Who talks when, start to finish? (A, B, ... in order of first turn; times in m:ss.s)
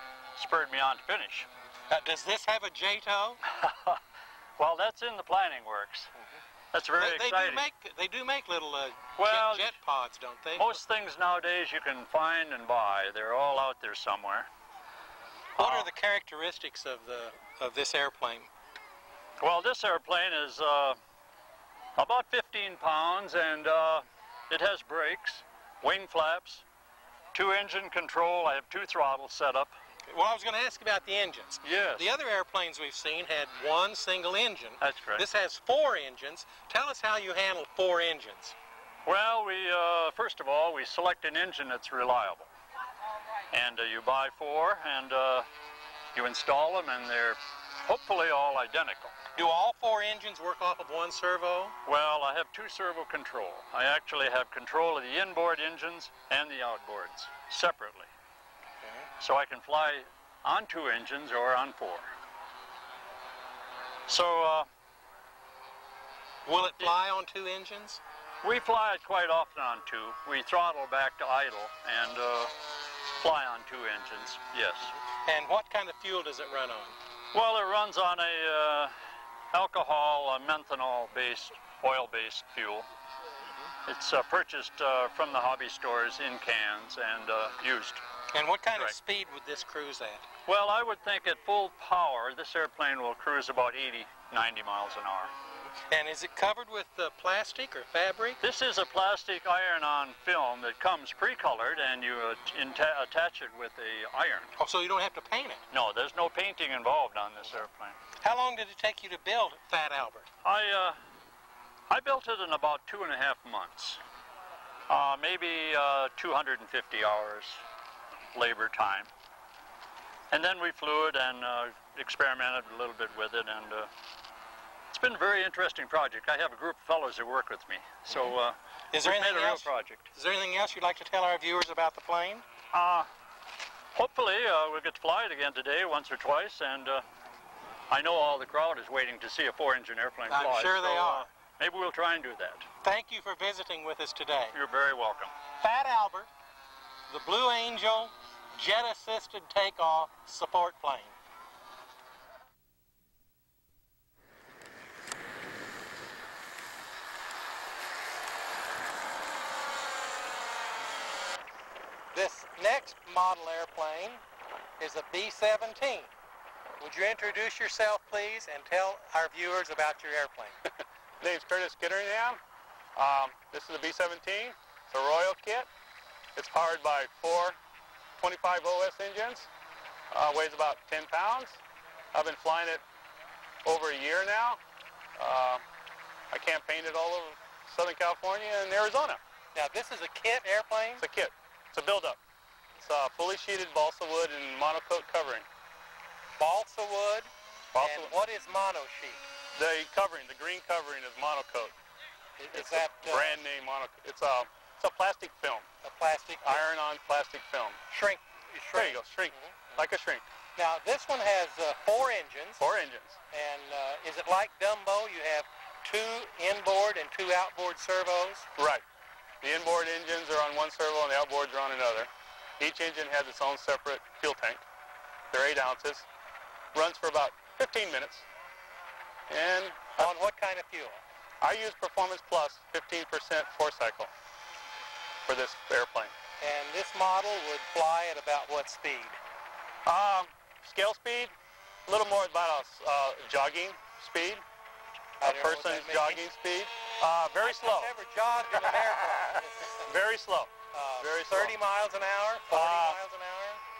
0:00.4-0:01.5 A
0:01.9-0:03.4 B
0:03.6-0:04.0 A
0:04.6-0:06.1 A
0:06.7-0:07.7 A
0:07.0-0:10.8 B
0:09.2-0:09.8 A
0:10.5-0:14.5 A
0:15.6-0:15.9 A
0:15.6-0:18.5 B
0:19.4-0:21.0 A
0:22.0-0:26.6 A
0:27.3-0:29.7 A
0:30.1-0:38.6 B
0:31.6-0:32.1 A
0:34.8-0:35.2 A
0:39.0-0:42.5 A
0:43.5-0:45.5 A
0:46.1-0:49.1 A
0:49.3-0:51.7 B
0:51.8-0:58.1 A
0:59.2-1:02.1 A
1:04.1-1:04.7 A
1:06.4-1:08.0 B
1:08.4-1:12.5 A
1:13.2-1:15.0 A
1:15.2-1:17.0 B
1:17.3-1:18.9 A
1:19.5-1:22.9 A
1:23.9-1:28.0 A
1:28.3-1:30.3 B
1:30.4-1:35.3 A
1:35.9-1:38.4 B
1:38.4-1:44.5 A
1:44.6-1:45.6 B
1:45.7-1:48.0 A
1:48.2-1:50.2 B
1:50.4-1:51.0 A
1:51.9-1:54.0 A
1:54.9-1:57.6 A
1:58.3-1:59.1 A
2:00.3-2:03.9 A
2:04.9-2:10.1 A
2:08.9-2:12.4 B
2:12.7-2:13.1 A
2:13.9-2:17.0 A
2:17.9-2:22.7 A
2:20.3-2:21.3 B
2:22.8-2:24.6 B
2:24.5-2:25.3 A
2:25.6-2:26.3 B
2:27.1-2:31.1 B
2:42.1-2:44.2 B
2:44.8-2:46.1 B
2:46.8-2:50.6 B
2:51.2-2:52.4 C
2:53.0-2:55.7 C
2:56.4-2:57.6 C
2:58.2-2:59.5 C
3:00.1-3:01.6 C
3:02.1-3:02.8 C
3:03.6-3:04.6 C
3:05.2-3:05.6 C
3:06.3-3:09.2 C
3:09.5-3:11.0 B
3:11.0-3:12.2 C
3:12.8-3:15.4 C
3:16.4-3:19.2 B
3:17.7-3:18.1 C
3:19.6-3:21.7 C
3:22.4-3:23.4 B
3:22.5-3:25.6 C
3:25.8-3:26.6 B
3:26.4-3:27.8 C
3:27.9-3:29.8 B
3:28.7-3:30.2 C
3:30.6-3:32.6 B
3:32.6-3:33.2 C
3:33.3-3:38.5 B
3:38.6-3:38.8 C
3:39.4-3:44.6 C
3:45.3-3:46.0 C
3:46.7-3:48.2 C
3:49.3-3:50.1 C
3:50.0-3:51.0 B
3:51.4-3:54.1 C
3:55.2-3:56.1 C
3:56.4-3:59.2 B
3:59.8-4:01.3 C
4:01.9-4:04.4 C
4:05.2-4:07.9 C
4:05.2-4:06.2 B
4:07.4-4:09.9 B
4:09.8-4:11.6 C
4:10.7-4:13.6 B
4:12.5-4:13.0 C